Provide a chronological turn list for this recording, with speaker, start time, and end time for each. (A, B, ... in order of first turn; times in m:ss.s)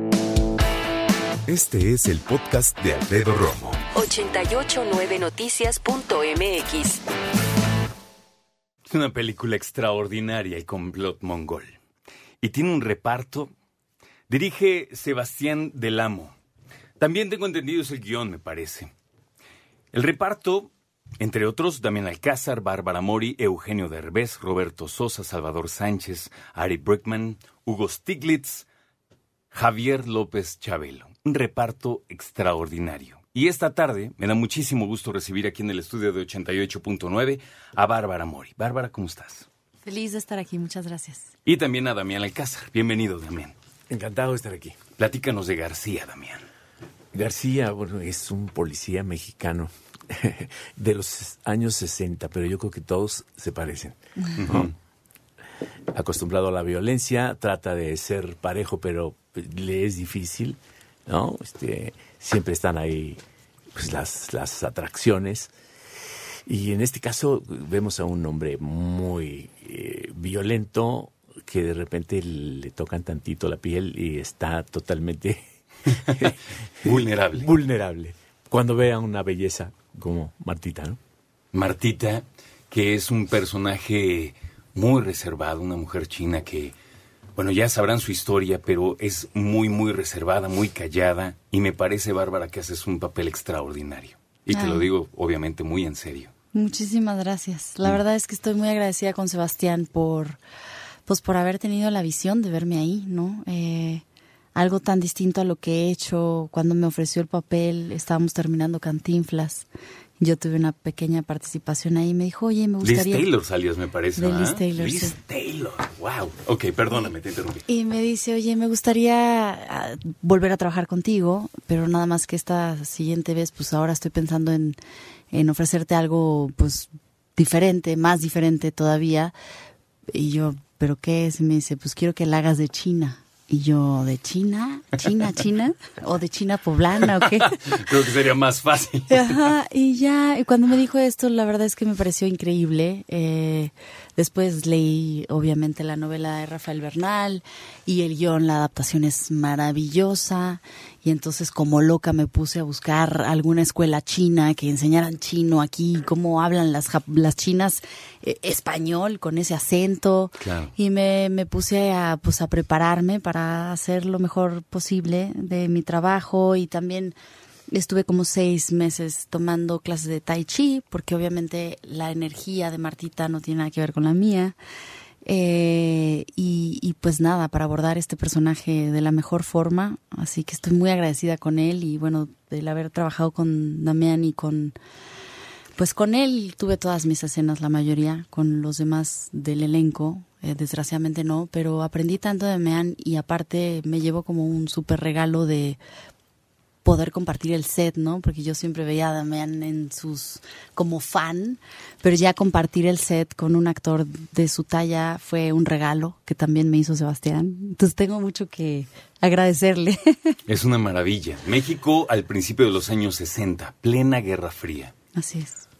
0:01.5-0:03.8 A
0:03.9-0:07.0 B
0:08.9-0:11.7 C
0:12.4-0:13.5 C
0:14.3-0:16.4 C
0:17.0-0:18.9 C
0:19.9-0:28.7 C
0:29.5-0:39.5 C
0:39.8-0:41.3 D
0:41.5-0:43.5 C
0:43.9-0:44.8 E
0:45.0-0:46.4 C
0:47.1-0:54.7 E
0:54.4-0:54.7 C
0:55.9-1:03.2 E
1:03.8-1:05.5 E
1:06.5-1:15.4 E
1:16.1-1:21.0 E
1:16.8-1:17.5 C
1:21.5-1:26.8 C
1:27.4-1:36.3 C
1:34.5-1:34.9 D
1:36.5-1:40.4 D
1:41.1-1:44.0 D
1:44.6-1:49.7 D
1:50.2-1:53.3 D
1:52.8-1:57.6 C
1:54.2-1:55.2 D
1:57.7-2:04.8 D
2:05.3-2:09.3 D
2:10.1-2:17.6 D
2:17.6-2:19.5 C
2:19.1-2:47.2 D
2:40.4-2:40.7 C
2:47.7-2:54.6 D
2:55.2-3:04.8 D
3:05.8-3:15.8 D
3:16.8-3:30.4 D
3:30.5-3:34.9 C
3:35.2-3:35.6 D